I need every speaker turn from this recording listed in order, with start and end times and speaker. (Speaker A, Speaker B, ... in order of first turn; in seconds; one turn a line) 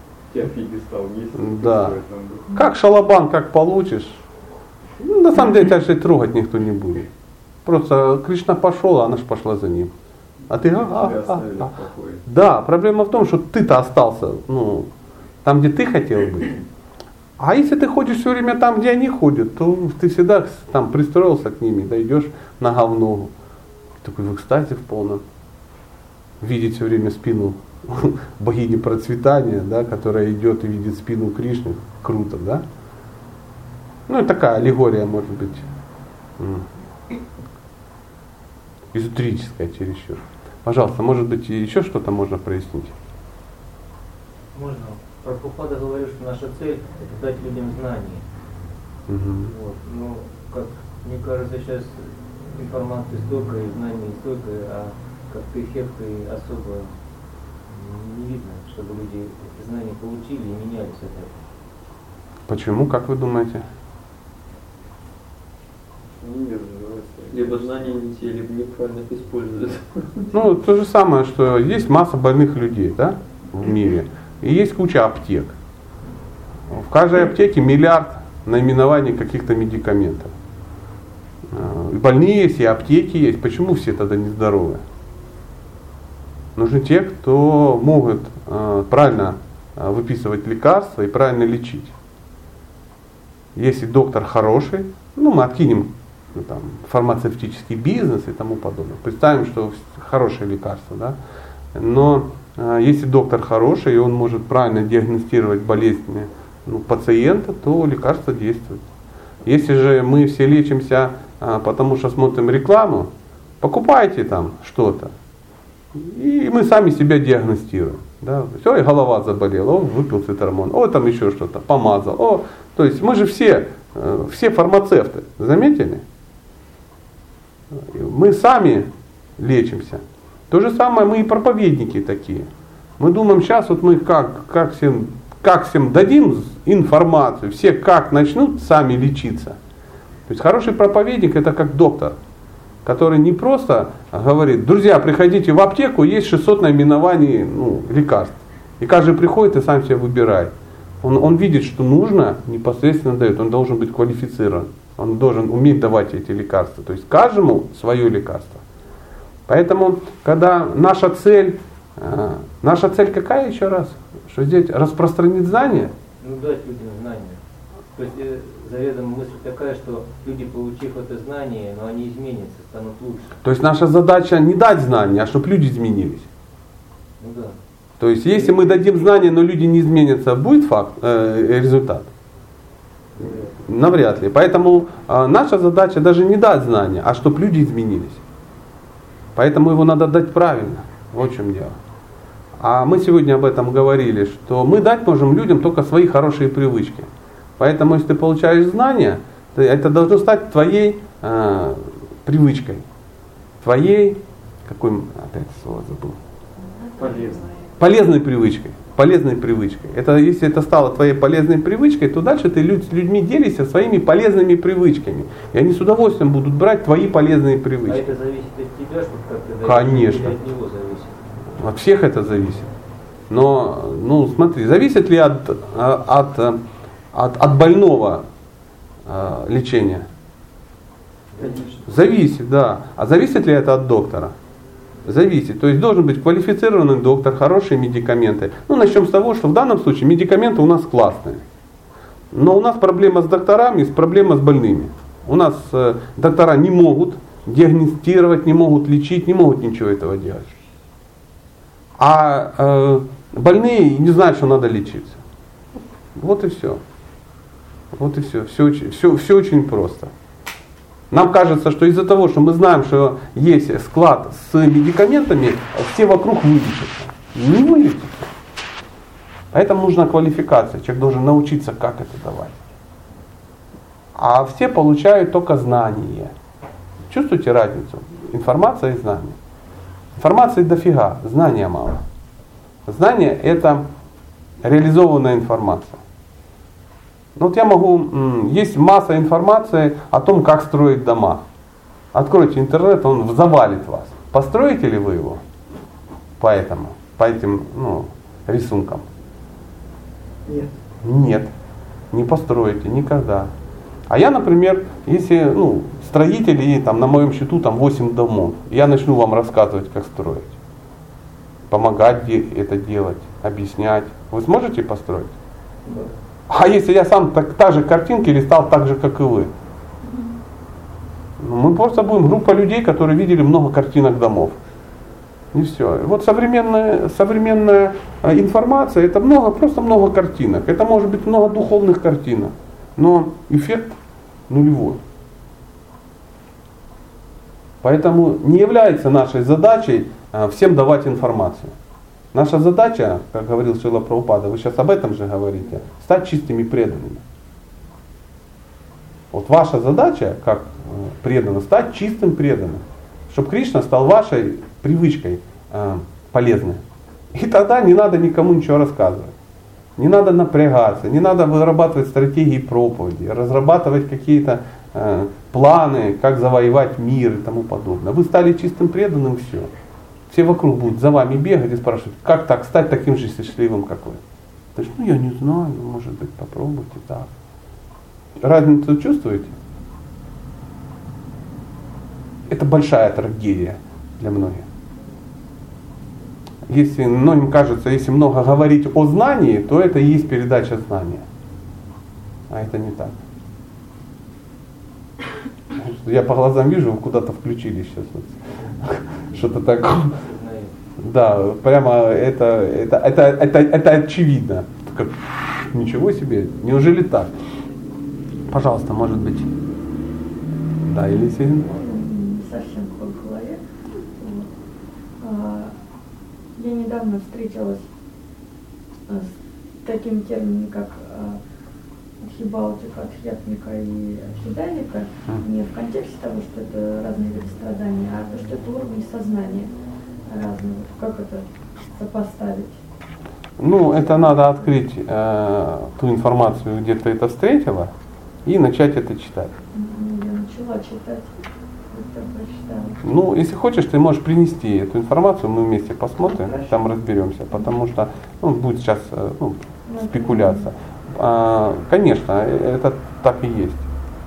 Speaker A: 0.3-2.5
Speaker B: 1.4-2.0
Speaker B: 2.5-4.2
Speaker B: 5.0-7.1
Speaker B: 7.7-9.9
Speaker B: 10.5-11.7
Speaker A: 10.5-12.2
Speaker B: 12.3-14.9
Speaker B: 15.4-16.6
Speaker B: 17.4-23.3
Speaker B: 24.0-25.2
Speaker B: 26.4-32.6
Speaker B: 34.1-35.7
Speaker B: 36.4-36.7
Speaker B: 38.9-42.9
Speaker C: 44.5-48.2
Speaker B: 49.1-49.5
Speaker C: 49.5-56.9
Speaker C: 57.7-61.4
Speaker B: 62.5-63.6
Speaker A: 66.2-67.7
Speaker D: 67.3-70.3
Speaker B: 70.3-75.6
Speaker B: 76.7-80.3
Speaker B: 81.5-84.8
Speaker B: 86.6-91.9
Speaker B: 93.5-101.2
Speaker B: 101.7-108.8
Speaker B: 109.5-115.1
Speaker B: 115.9-126.0
Speaker B: 127.7-132.5
Speaker B: 133.0-139.6
Speaker B: 140.3-142.2
Speaker B: 142.8-158.6
Speaker B: 159.5-165.9
Speaker C: 166.2-167.4
Speaker C: 167.9-173.4
Speaker B: 173.4-176.3
Speaker C: 177.2-177.6
Speaker B: 178.0-182.1
Speaker C: 178.3-179.3
Speaker C: 183.2-183.5
Speaker B: 183.6-188.2
Speaker B: 189.3-191.8
Speaker B: 192.6-202.8
Speaker B: 203.6-206.2
Speaker E: 206.6-207.4
Speaker A: 207.0-207.5
Speaker B: 207.8-218.1
Speaker C: 217.9-221.2
Speaker B: 219.6-220.4
Speaker B: 221.6-222.7
Speaker B: 223.3-226.6
Speaker B: 227.1-228.2
Speaker B: 229.1-230.1
Speaker A: 231.4-231.7
Speaker B: 231.9-234.3
Speaker B: 235.1-241.4
Speaker B: 242.3-250.5
Speaker B: 252.0-255.2
Speaker B: 256.1-256.8
Speaker B: 257.9-260.1
Speaker B: 261.1-268.3
Speaker B: 269.5-272.6
Speaker B: 274.1-276.4
Speaker B: 277.1-279.4
Speaker B: 280.2-282.0
Speaker B: 282.9-283.9
Speaker B: 284.6-286.0
Speaker B: 287.4-291.4
Speaker B: 292.1-295.4
Speaker B: 296.4-299.1
Speaker D: 300.5-300.8
Speaker B: 301.0-301.5
Speaker B: 302.1-303.5
Speaker B: 304.1-310.6
Speaker B: 311.7-315.4
Speaker C: 315.9-316.1
Speaker B: 316.5-319.5
Speaker E: 320.0-320.3
Speaker B: 321.4-324.6
Speaker B: 325.5-334.0
Speaker B: 334.5-335.0
Speaker B: 337.8-341.7
Speaker B: 342.3-347.2
Speaker B: 349.3-356.8
Speaker B: 357.3-359.3
Speaker B: 360.0-369.7
Speaker B: 370.3-374.2
Speaker B: 374.8-377.3
Speaker B: 378.4-379.6
Speaker B: 382.5-384.7
Speaker B: 386.7-391.3
Speaker B: 392.5-393.2
Speaker B: 395.8-400.2
Speaker C: 400.0-400.7
Speaker B: 401.0-407.3
Speaker B: 408.5-409.5
Speaker B: 410.9-411.8
Speaker E: 411.6-413.6
Speaker E: 414.1-414.5
Speaker E: 415.2-415.8
Speaker E: 416.6-417.9
Speaker E: 419.1-421.4
Speaker E: 422.2-429.7
Speaker E: 430.3-432.8
Speaker B: 433.6-437.9
Speaker E: 433.9-434.6
Speaker B: 438.4-439.6
Speaker E: 439.7-441.4
Speaker E: 441.9-443.0
Speaker B: 443.0-453.9
Speaker E: 449.9-450.7